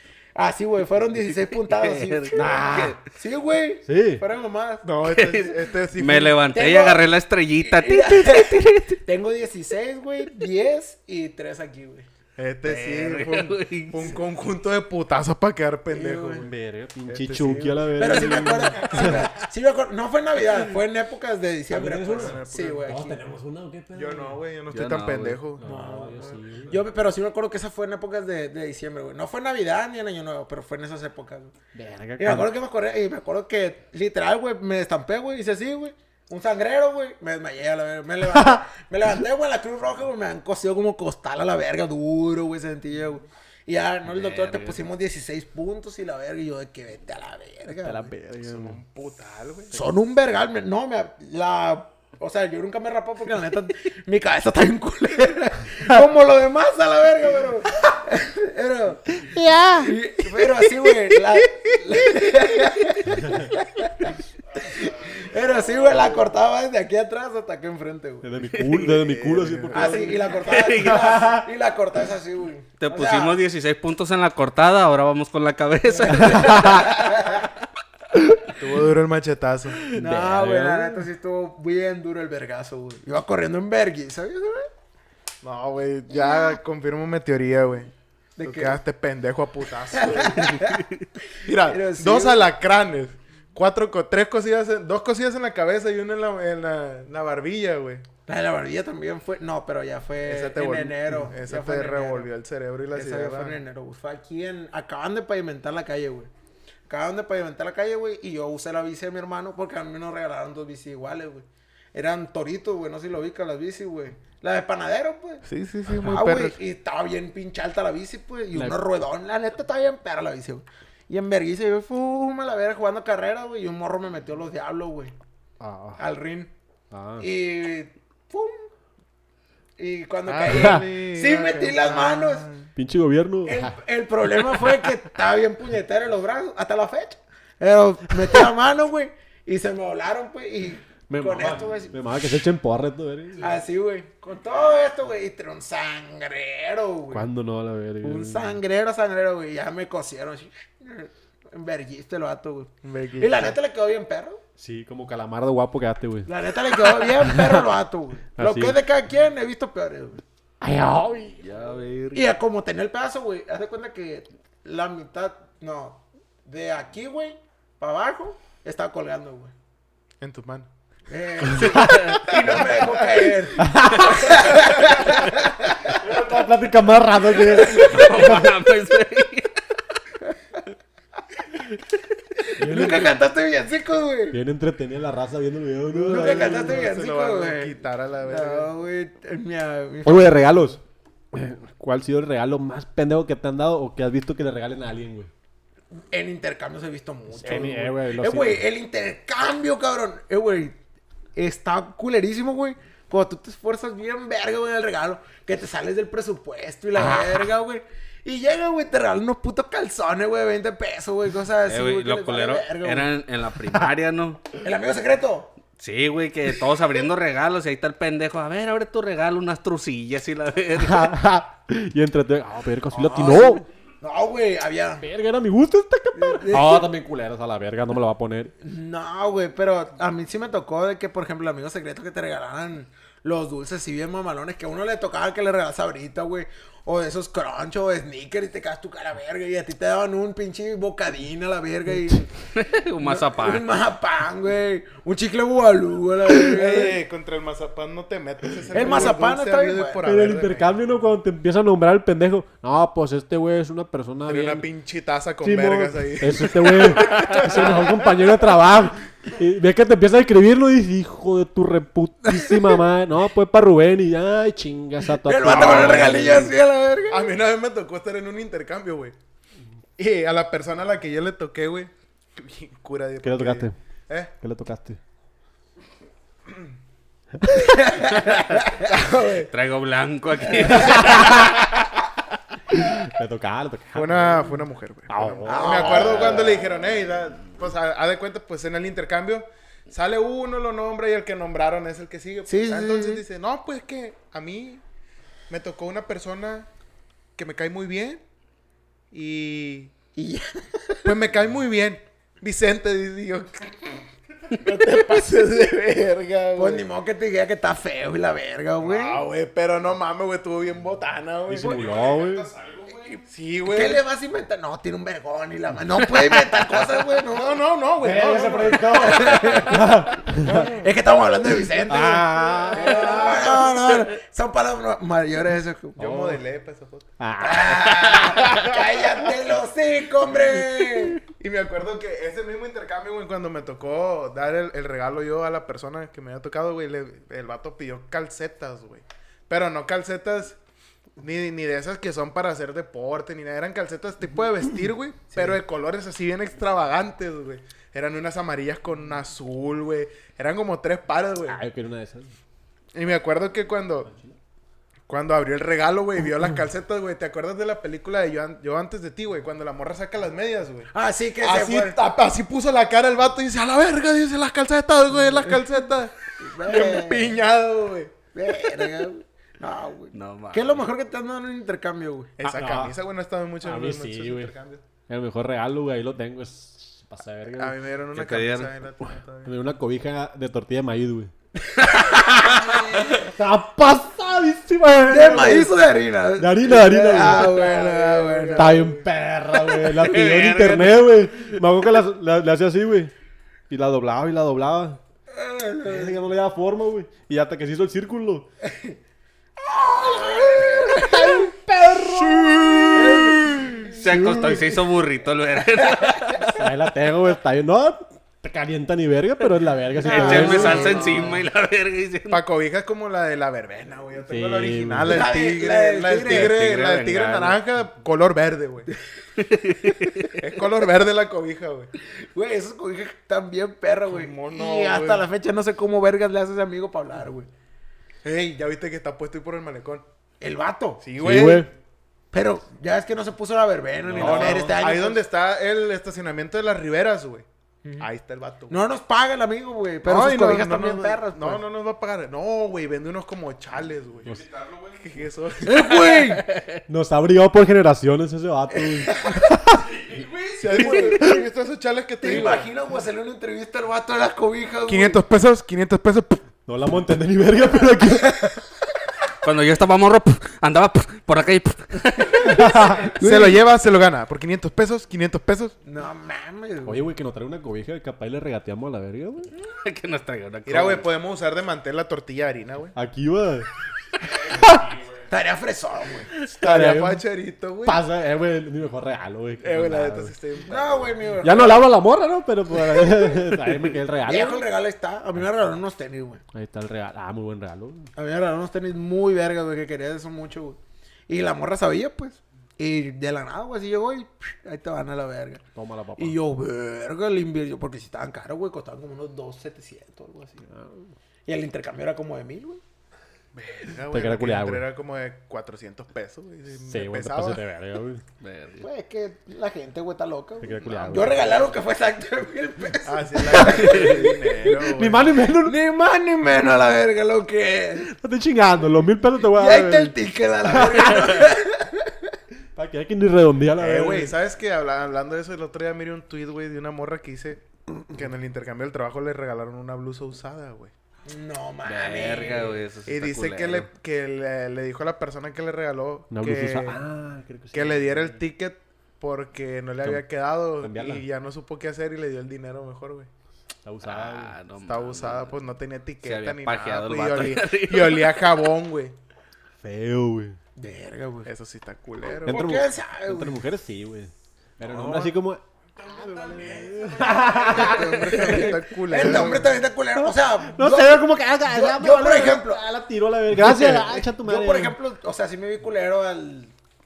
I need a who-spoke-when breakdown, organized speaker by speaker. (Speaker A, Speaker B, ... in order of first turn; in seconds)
Speaker A: 0.3-4.8, 6.5-7.0, 7.6-12.1, 15.9-16.5, 18.0-23.2, 25.6-31.5, 32.2-48.1, 49.7-68.3, 69.7-73.4, 75.9-77.5, 79.9-84.7, 86.1-86.6, 88.4-88.8, 90.0-90.9, 91.5-92.5, 98.3-102.3, 102.9-106.3, 106.9-115.4, 116.0-125.2, 126.0-126.5, 127.2-128.7, 129.8-132.5, 133.4-142.0, 143.4-147.3, 148.0-154.4, 156.3-160.2, 162.1-169.5, 171.1-176.1, 177.5-178.2, 182.4-184.4, 185.9-187.8, 188.3-190.4, 196.1-200.8, 201.4-213.1, 214.6-215.5, 222.9-225.1, 226.2-226.9, 228.6-242.3, 243.0-247.0, 248.7-250.0, 265.2-267.3, 277.5-279.1, 280.6-281.3, 285.5-286.6, 292.5-293.2, 300.1-301.1, 306.6-309.2, 313.0-317.6, 318.7-326.3, 327.4-331.2, 360.9-362.0, 366.4-367.4, 368.3-372.3, 381.8-383.1, 385.1-388.8, 395.3-396.2, 398.6-399.0, 399.6-401.6, 402.9-403.9, 406.0-406.5, 410.0-411.4, 415.1-416.7, 422.0-427.5, 430.4-431.0, 432.3-435.2, 437.8-438.1, 438.7-441.6, 445.6-446.5, 448.9-449.5, 450.0-451.4, 452.2-455.2, 462.3-463.6, 465.9-467.1, 475.3-476.3, 480.7-481.9, 483.0-486.4, 488.2-490.8, 491.3-495.6, 496.2-500.7, 501.5-502.8, 508.8-514.8, 515.6-518.1, 519.4-522.4, 531.3-532.8, 550.8-551.5, 552.4-553.6, 557.1-562.8, 563.5-566.8
Speaker B: 1.4-3.0, 5.1-9.0, 12.7-14.2, 24.7-25.4, 44.0-44.8, 68.5-68.9, 70.4-71.4, 72.8-77.5, 161.4-162.3, 171.7-172.3, 177.6-179.5, 211.7-214.4, 215.8-221.1, 242.5-243.8, 278.1-278.4, 279.5-281.8, 316.1-316.9, 370.1-370.9, 378.1-378.7, 389.8-391.6, 403.9-406.5, 410.0-412.4, 416.2-417.6, 419.4-420.3, 445.9-446.7, 459.4-462.6, 469.7-471.1, 508.4-508.9, 513.6-514.2, 531.9-533.9, 544.0-545.5, 546.2-548.5
Speaker C: 2.3-3.0, 3.9-4.2, 16.4-19.3, 21.7-24.4, 25.6-26.8, 31.7-32.5, 38.2-38.6, 47.7-48.8, 59.2-59.9, 68.2-70.3, 71.1-71.4, 76.2-76.9, 79.9-81.1, 125.6-126.0, 126.9-127.3, 130.5-130.8, 132.8-133.8, 141.1-143.5, 147.1-148.6, 154.6-156.3, 156.8-157.7, 158.4-158.8, 160.6-161.4, 171.5-172.1, 173.6-174.3, 175.9-178.6, 182.6-183.2, 184.3-186.9, 190.1-190.8, 191.3-195.3, 197.3-198.6, 220.8-223.7, 225.0-228.5, 248.8-249.1, 250.0-254.7, 255.4-266.5, 273.2-273.8, 274.4-275.0, 280.8-281.5, 282.7-284.6, 285.1-286.5, 311.5-312.5, 318.0-320.7, 321.9-323.5, 326.0-326.3, 327.2-328.1, 351.5-352.3, 372.4-372.9, 373.6-374.5, 375.1-377.8, 379.4-381.3, 383.1-385.8, 386.4-387.6, 388.6-393.1, 393.7-395.0, 395.9-398.5, 400.9-404.7, 406.5-411.0, 414.3-415.4, 431.2-431.7, 434.1-434.8, 446.9-449.9, 456.7-458.6, 462.4-463.1, 466.9-469.5, 472.9-473.7, 474.6-474.9, 476.5-477.2, 477.8-480.3, 481.4-484.7, 486.5-488.1, 495.8-496.4, 500.7-501.1, 504.1-504.8, 506.9-508.2, 510.6-511.6, 514.7-515.8, 518.0-520.2, 520.7-521.4, 522.8-524.4, 536.3-538.4, 540.8-541.2, 543.9-544.6, 549.8-550.6, 552.5-555.6, 556.5-558.8, 560.3-565.0
Speaker D: 4.8-6.4, 12.4-16.5, 17.1-18.2, 22.1-22.9, 23.9-25.7, 48.4-49.8, 65.7-66.0, 68.9-70.2, 78.6-79.8, 85.4-87.9, 88.4-90.7, 91.4-98.0, 100.2-103.6, 115.5-116.6, 130.3-132.7, 152.8-153.6, 170.2-170.7, 172.3-173.4, 174.5-174.9, 186.3-188.7, 246.4-250.8, 254.3-258.2, 265.4-266.5, 267.1-269.1, 270.0-274.3, 278.8-279.5, 283.9-294.8, 295.5-296.7, 297.4-298.2, 299.1-299.9, 301.0-306.9, 308.8-314.0, 317.2-319.2, 320.4-320.8, 322.7-323.7, 326.0-327.1, 327.7-329.1, 331.4-340.6, 341.2-351.6, 352.9-354.1, 355.1-368.9, 372.4-374.8, 377.6-379.5, 387.1-389.1, 410.4-411.4, 412.3-418.9, 420.4-421.9, 424.1-425.3, 428.2-430.1, 431.0-431.7, 434.1-437.5, 438.0-438.8, 440.0-446.1, 450.5-452.7, 454.9-456.4, 463.2-465.8, 470.7-472.9, 476.6-478.0, 479.6-481.2, 503.5-507.6, 511.1-511.5, 513.0-515.4, 523.8-530.9, 533.1-537.0, 537.7-543.3, 544.8-549.1, 551.5-552.8, 554.8-555.4, 556.0-559.8